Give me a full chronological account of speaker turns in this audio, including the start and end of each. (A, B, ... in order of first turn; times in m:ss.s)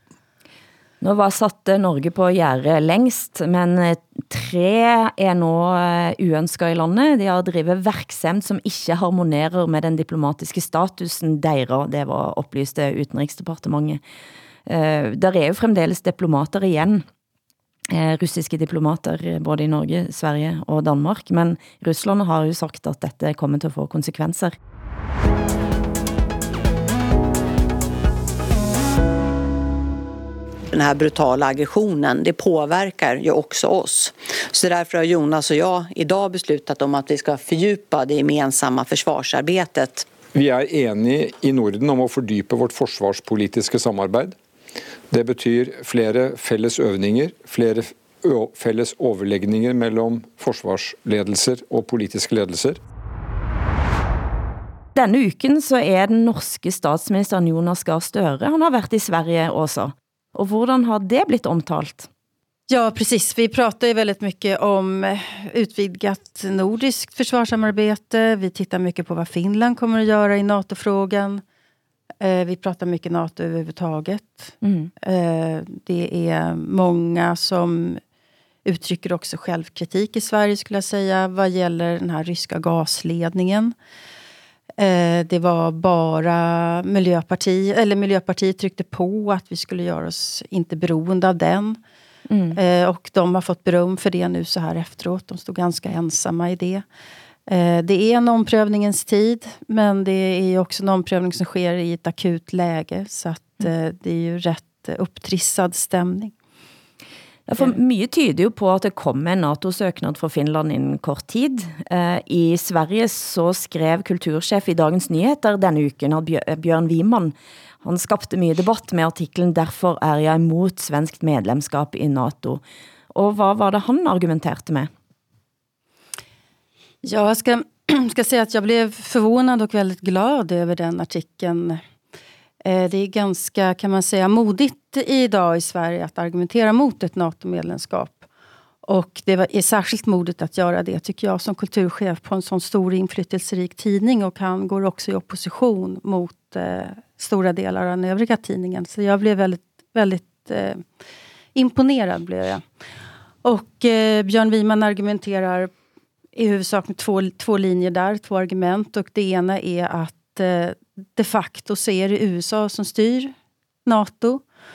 0:01.0-0:14.0 A
0:14.7-0:17.0 A
0:17.9-0:24.6 A
0:30.7-0:40.1 B
0:40.3-0:44.4 C
0:45.1-0:52.8 C
0:55.0-1:02.1 A
1:02.7-1:11.4 D
1:12.2-1:18.0 D
1:14.6-1:14.9 A
1:18.6-1:23.7 D
1:24.8-1:31.8 D
1:32.3-1:32.6 A
1:32.5-1:36.8 D
1:37.5-1:46.3 D
1:47.5-2:04.9 A
2:07.0-2:11.8 D
2:12.6-2:18.3 D
2:18.9-2:30.8 D
2:31.6-2:32.6 D
2:33.4-2:35.7 D
2:36.4-2:43.3 D
2:43.9-2:44.4 D